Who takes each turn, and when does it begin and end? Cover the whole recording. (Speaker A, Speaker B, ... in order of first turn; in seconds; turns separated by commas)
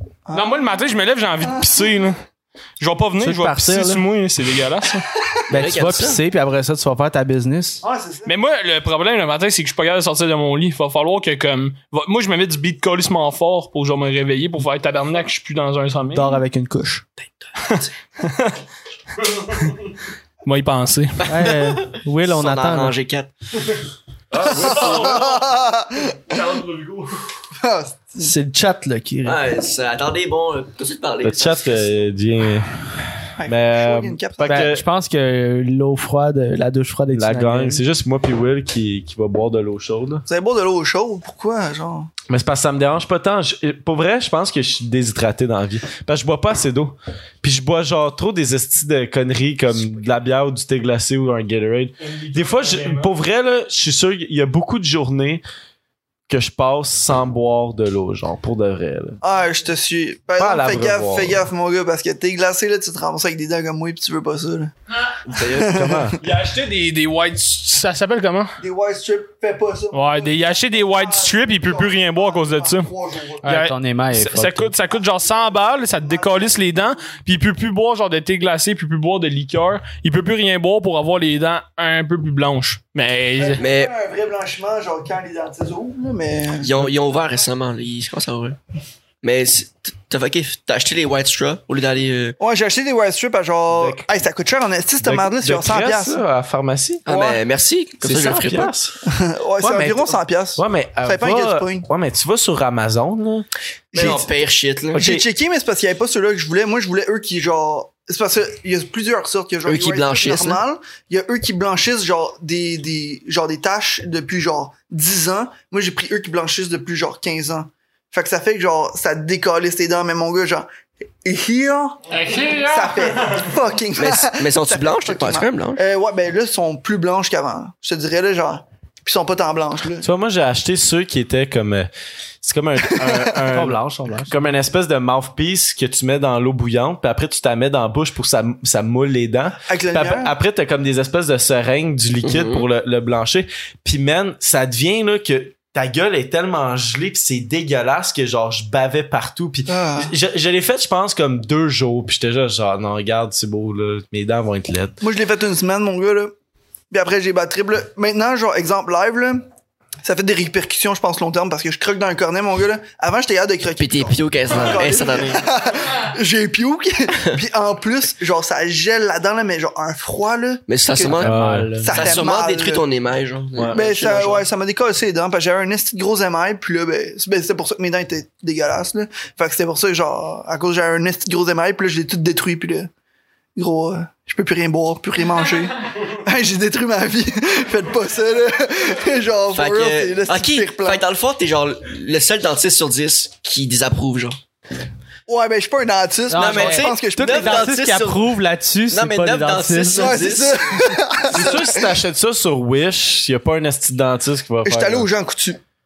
Speaker A: 0.3-0.6, Speaker B: 0.3-2.2, Speaker B: 2.8-5.0, Speaker C: 3.2-4.0, Speaker C: 5.5-7.8, Speaker D: 5.5-6.2, Speaker A: 7.8-8.3, Speaker B: 8.3-16.4, Speaker C: 16.1-17.0, Speaker D: 17.2-17.9, Speaker B: 17.7-18.6, Speaker B: 19.3-19.8, Speaker B: 20.4-21.2, Speaker D: 21.2-23.3, Speaker C: 21.3-22.9, Speaker B: 24.3-25.5, Speaker E: 24.5-24.8, Speaker A: 24.5-26.4, Speaker B: 26.1-27.1, Speaker A: 27.6-28.3, Speaker C: 28.2-29.4, Speaker D: 29.2-31.9, Speaker E: 31.2-32.7, Speaker A: 33.4-34.7, Speaker E: 33.5-34.8, Speaker C: 34.5-37.9, Speaker E: 37.1-40.2, Speaker A: 40.3-42.1, Speaker E: 42.3-55.4, Speaker B: 52.0-53.1, Speaker E: 56.3-59.2, Speaker A: 59.2-64.7, Speaker E: 60.4-61.4, Speaker D: 65.3-65.9, Speaker E: 65.6-66.2, Speaker A: 65.6-66.2, Speaker B: 66.2-68.6, Speaker A: 68.6-73.4, Speaker B: 69.9-72.9, Speaker C: 73.4-74.7, Speaker B: 73.4-83.6, Speaker A: 75.2-76.9, Speaker A: 83.4-86.7, Speaker D: 83.6-83.9, Speaker D: 86.6-88.6, Speaker D: 89.2-92.4, Speaker A: 92.4-96.2, Speaker E: 93.7-94.1, Speaker E: 95.0-97.2, Speaker D: 97.1-98.7, Speaker A: 97.1-97.4, Speaker E: 98.0-99.0, Speaker A: 99.0-101.9, Speaker E: 99.6-104.2, Speaker A: 103.9-104.3, Speaker D: 103.9-105.0, Speaker E: 104.9-105.2, Speaker A: 105.0-120.7, Speaker D: 109.7-110.6, Speaker A: 121.2-122.0, Speaker B: 122.1-123.5, Speaker A: 122.6-130.1, Speaker D: 124.0-125.8, Speaker E: 130.0-131.9, Speaker E: 132.4-155.0, Speaker A: 133.0-133.2, Speaker C: 133.5-134.3, Speaker A: 139.7-140.3, Speaker D: 142.2-142.7, Speaker A: 149.7-150.1, Speaker A: 155.0-156.3, Speaker A: 156.9-159.5, Speaker A: 160.0-171.2, Speaker D: 163.8-165.4, Speaker E: 164.5-164.8, Speaker D: 170.7-171.3, Speaker C: 171.2-172.0, Speaker E: 171.2-171.8, Speaker A: 171.8-172.8, Speaker D: 171.9-174.5, Speaker A: 173.7-182.9, Speaker A: 183.6-191.0, Speaker D: 189.5-194.4, Speaker A: 195.3-197.8, Speaker C: 196.3-200.3, Speaker D: 196.4-198.3, Speaker D: 198.9-200.8, Speaker A: 199.9-201.9, Speaker E: 201.3-205.1, Speaker A: 204.6-205.6